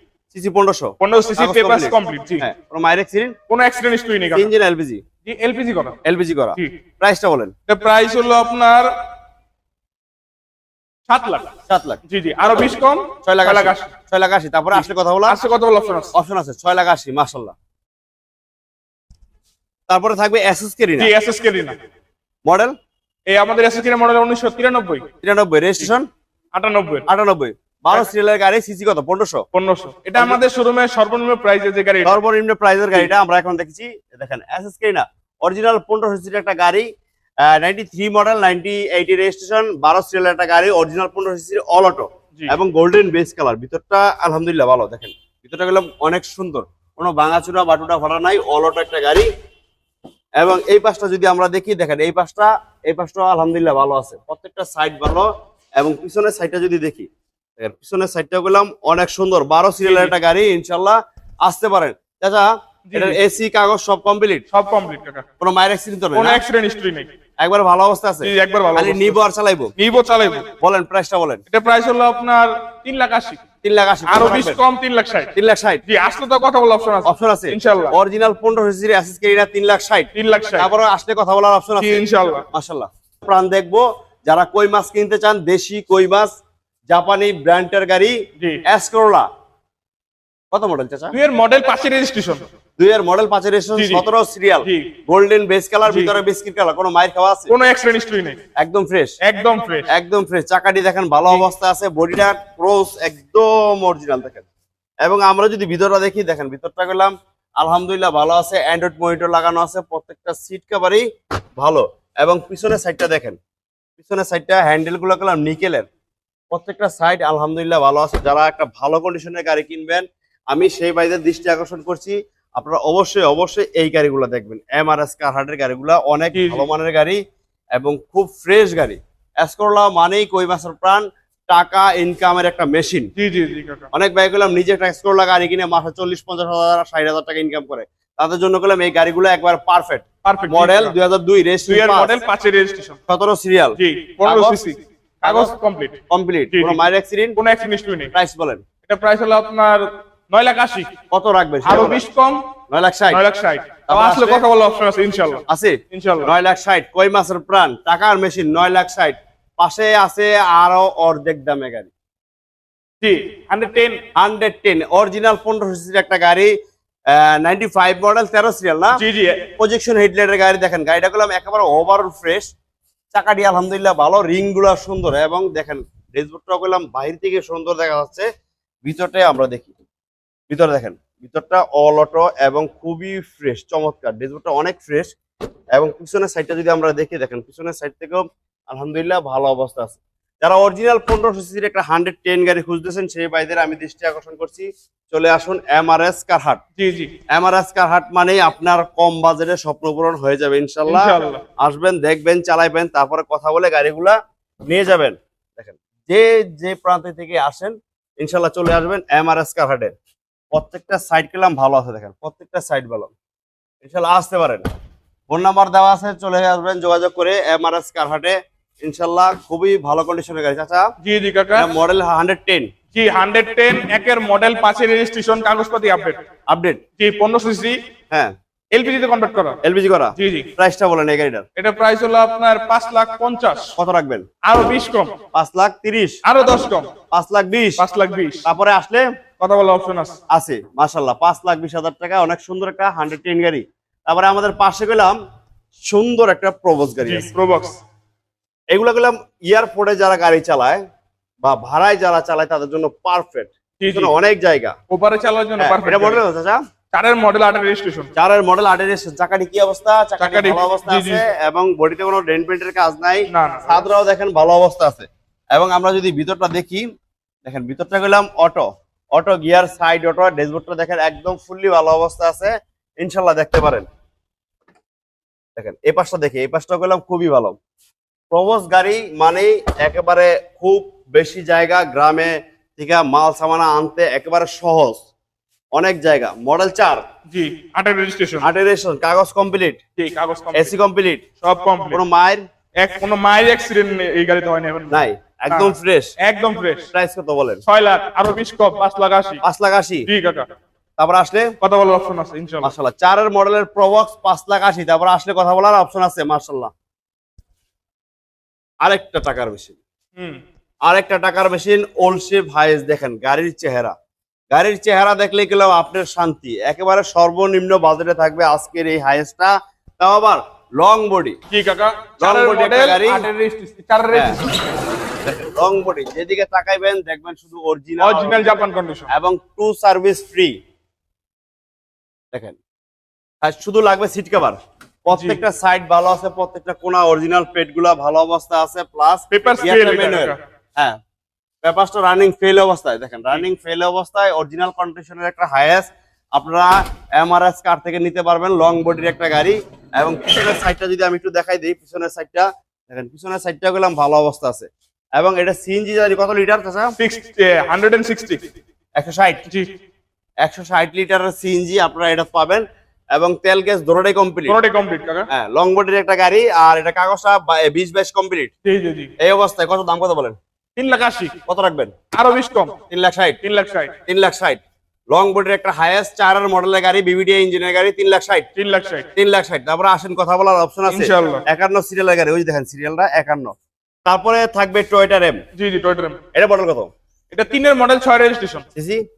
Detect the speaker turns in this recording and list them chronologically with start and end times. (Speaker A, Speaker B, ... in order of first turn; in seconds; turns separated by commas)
Speaker A: 0.3-3.4, Speaker B: 1.0-2.4, Speaker B: 3.5-4.5, Speaker A: 4.3-5.0, Speaker B: 5.2-6.0, Speaker A: 6.0-7.5, Speaker B: 7.7-8.9, Speaker B: 11.1-11.5, Speaker A: 11.7-12.0, Speaker B: 12.1-13.9, Speaker A: 13.2-15.4, Speaker B: 14.8-16.1, Speaker A: 16.1-17.5, Speaker A: 19.9-21.1, Speaker B: 21.0-21.8, Speaker A: 22.4-22.8, Speaker B: 23.3-25.1, Speaker A: 25.2-26.1, Speaker B: 26.5-27.1, Speaker A: 27.1-29.4, Speaker B: 29.5-32.2, Speaker A: 32.0-36.9, Speaker A: 37.4-49.3, Speaker A: 50.4-64.4, Speaker B: 59.8-60.1, Speaker B: 62.9-63.2, Speaker B: 64.5-65.2, Speaker A: 65.4-66.4, Speaker B: 66.1-67.1, Speaker A: 67.4-69.7, Speaker B: 68.2-69.2, Speaker B: 69.8-70.5, Speaker A: 70.6-71.4, Speaker B: 71.5-73.4, Speaker A: 73.6-74.6, Speaker B: 74.0-75.3, Speaker A: 75.3-75.8, Speaker B: 75.8-77.9, Speaker A: 77.0-86.3, Speaker B: 80.1-80.7, Speaker B: 81.8-82.5, Speaker A: 86.9-89.3, Speaker A: 90.5-91.1, Speaker B: 91.1-92.4, Speaker A: 92.8-97.5, Speaker B: 93.8-94.0, Speaker B: 94.6-94.9, Speaker B: 95.8-96.1, Speaker B: 97.5-98.4, Speaker A: 98.5-99.2, Speaker B: 99.2-99.9, Speaker A: 99.9-104.5, Speaker A: 105.0-111.0, Speaker A: 111.6-113.4, Speaker A: 114.0-115.9, Speaker A: 116.5-127.2, Speaker B: 126.3-126.7, Speaker A: 127.7-133.1, Speaker B: 133.2-133.9, Speaker A: 133.9-142.2, Speaker B: 140.2-140.9, Speaker B: 141.7-143.0, Speaker A: 143.1-144.6, Speaker B: 143.8-146.0, Speaker A: 145.2-145.5, Speaker A: 146.1-147.4, Speaker B: 146.5-146.8, Speaker B: 147.3-148.1, Speaker A: 148.1-148.6, Speaker B: 148.9-150.9, Speaker A: 151.1-152.0, Speaker B: 151.6-152.5, Speaker A: 152.7-153.2, Speaker B: 153.1-156.3, Speaker A: 153.9-154.4, Speaker A: 155.5-161.9, Speaker B: 163.0-164.0, Speaker A: 164.1-166.5, Speaker A: 167.1-169.0, Speaker B: 168.9-169.4, Speaker A: 169.6-172.5, Speaker A: 173.1-178.3, Speaker A: 178.8-179.7, Speaker A: 180.5-185.1, Speaker A: 185.7-196.6, Speaker B: 196.8-197.1, Speaker A: 197.3-204.2, Speaker B: 200.8-201.4, Speaker A: 204.7-209.9, Speaker A: 210.5-213.1, Speaker A: 213.8-214.7, Speaker A: 215.3-220.9, Speaker B: 221.0-221.7, Speaker A: 221.5-222.7, Speaker B: 222.9-226.2, Speaker A: 226.5-226.8, Speaker B: 227.0-227.8, Speaker B: 228.7-229.6, Speaker A: 229.6-231.4, Speaker B: 230.2-230.5, Speaker B: 231.6-233.7, Speaker A: 233.8-234.3, Speaker B: 234.4-235.1, Speaker A: 235.3-236.2, Speaker B: 236.2-236.9, Speaker A: 237.1-237.8, Speaker B: 237.8-238.4, Speaker A: 238.4-239.1, Speaker B: 239.4-240.2, Speaker A: 240.3-245.2, Speaker A: 245.8-247.3, Speaker B: 247.0-247.8, Speaker A: 248.7-250.8, Speaker A: 251.4-254.7, Speaker B: 253.8-254.1, Speaker B: 254.9-256.2, Speaker A: 255.6-256.6, Speaker B: 256.9-258.1, Speaker A: 258.1-266.9, Speaker B: 260.2-261.2, Speaker B: 263.3-263.8, Speaker A: 267.4-273.9, Speaker A: 275.6-277.6, Speaker A: 278.3-285.0, Speaker A: 285.7-287.0, Speaker B: 287.3-288.4, Speaker A: 288.4-289.8, Speaker B: 290.0-290.7, Speaker A: 290.5-291.2, Speaker B: 291.4-292.0, Speaker A: 291.9-292.4, Speaker B: 292.8-296.9, Speaker A: 294.9-296.1, Speaker A: 296.9-297.6, Speaker B: 297.7-299.4, Speaker A: 299.4-300.1, Speaker B: 300.1-300.5, Speaker A: 301.0-301.5, Speaker B: 301.6-302.7, Speaker A: 302.6-306.7, Speaker A: 308.8-309.8, Speaker A: 310.9-313.9, Speaker A: 314.5-321.4, Speaker B: 321.5-324.5, Speaker A: 322.2-323.3, Speaker A: 324.1-324.4, Speaker A: 325.2-330.5, Speaker B: 328.0-329.1, Speaker A: 332.3-332.6, Speaker A: 333.4-341.0, Speaker B: 335.1-335.4, Speaker B: 339.3-340.4, Speaker A: 341.6-356.9, Speaker B: 357.0-358.4, Speaker A: 358.9-359.4, Speaker A: 360.4-364.6, Speaker B: 364.5-365.3, Speaker A: 365.3-368.5, Speaker B: 368.6-369.1, Speaker A: 369.2-370.4, Speaker B: 370.8-371.3, Speaker A: 371.5-371.9, Speaker B: 372.1-372.7, Speaker A: 372.9-373.4, Speaker B: 373.4-373.9, Speaker A: 374.1-378.5, Speaker B: 378.5-379.1, Speaker A: 379.1-385.4, Speaker B: 380.9-381.4, Speaker B: 385.6-386.2, Speaker A: 386.3-386.9, Speaker B: 387.3-388.6, Speaker A: 388.7-389.0